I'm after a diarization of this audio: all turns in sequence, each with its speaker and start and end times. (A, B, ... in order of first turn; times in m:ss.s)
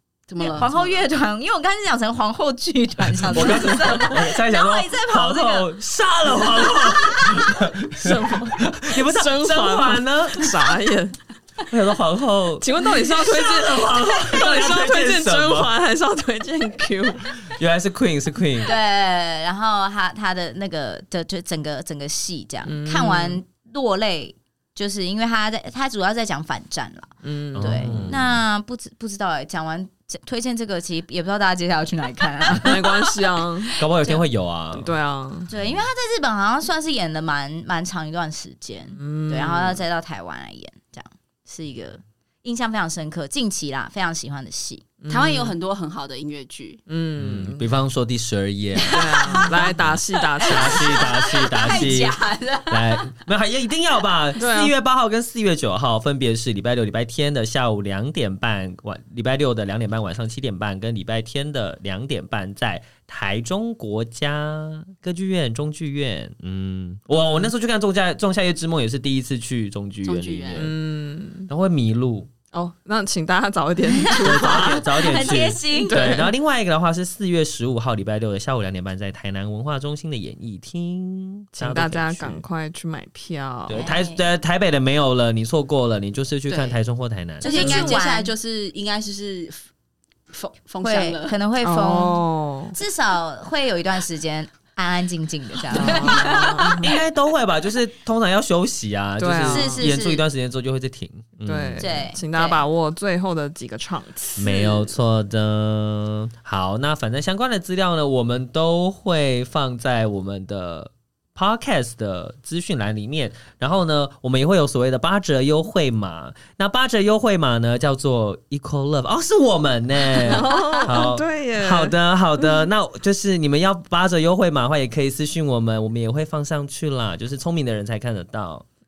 0:00.3-0:01.0 A
0:00.4-0:05.7 B
0:03.3-0:03.7 C
0:03.3-0:10.5 D
0:06.8-0:07.3 B
0:08.0-0:11.2 C
0:11.7-0:15.7 D
0:12.6-0:17.4 C
0:17.5-0:18.8 D
0:18.6-0:33.0 B
0:22.6-0:23.4 C
0:27.2-0:28.2 C
0:27.5-0:28.4 D
0:32.5-0:33.8 C
0:33.8-0:34.9 D
0:34.0-0:34.2 B
0:34.7-0:35.5 C
0:35.5-0:44.8 B
0:38.9-0:39.8 C
0:45.0-0:45.6 C
0:45.1-0:46.8 A
0:46.9-0:47.7 C
0:47.2-0:49.8 D
0:48.9-0:51.0 C
0:49.1-0:49.7 B
0:50.4-0:53.0 B
0:50.4-1:10.7 D
0:54.4-0:54.7 C
1:10.0-1:10.7 A
1:10.5-1:11.5 C
1:11.5-1:12.3 D
1:12.5-1:16.2 C
1:14.0-1:16.3 B
1:14.2-1:22.4 D
1:21.5-1:23.9 C
1:23.7-1:27.8 D
1:23.7-1:24.2 B
1:26.5-1:26.8 A
1:27.4-1:28.3 B
1:27.4-1:29.6 A
1:30.3-1:31.4 A
1:30.8-1:32.2 B
1:31.6-1:32.8 C
1:32.7-1:36.8 B
1:35.7-1:36.9 C
1:35.7-1:36.4 A
1:36.7-1:42.0 D
1:39.2-1:40.0 C
1:39.5-1:40.2 B
1:41.4-1:45.0 C
1:41.8-1:42.6 B
1:44.4-2:08.6 D
2:00.2-2:02.7 C